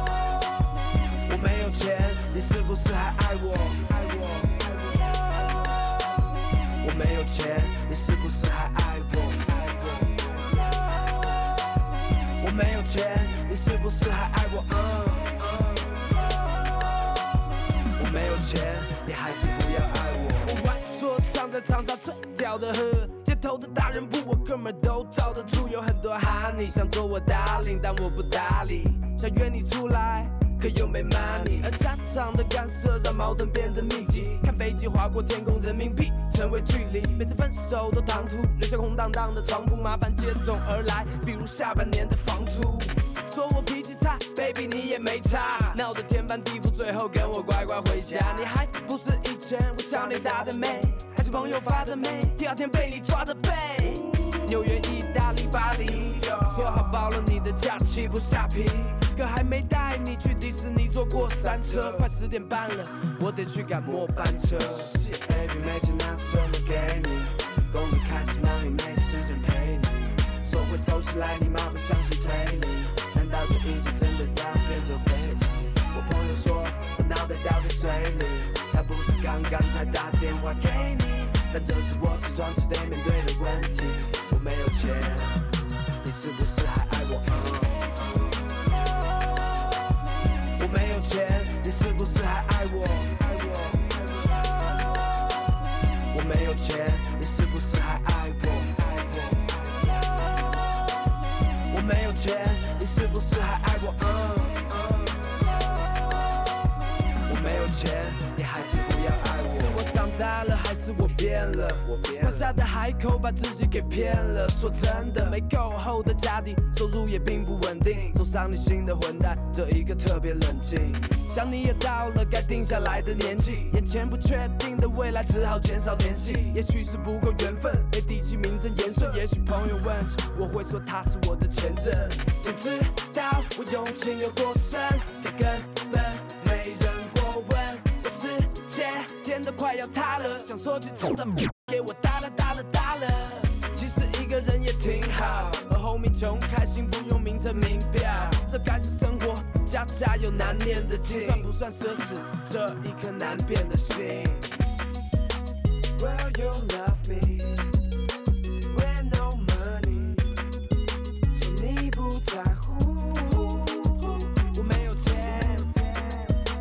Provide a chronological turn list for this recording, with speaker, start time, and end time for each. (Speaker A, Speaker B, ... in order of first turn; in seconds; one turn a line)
Speaker A: 1.2-5.1
Speaker A: 6.8-10.6
Speaker A: 12.4-16.1
Speaker A: 17.9-85.5
Speaker A: 86.0-88.4
Speaker A: 90.6-94.2
Speaker A: 96.1-99.8
Speaker A: 101.7-105.4
Speaker A: 107.2-154.6
Speaker A: 155.9-157.7
Speaker A: 158.7-160.3
Speaker A: 161.3-165.9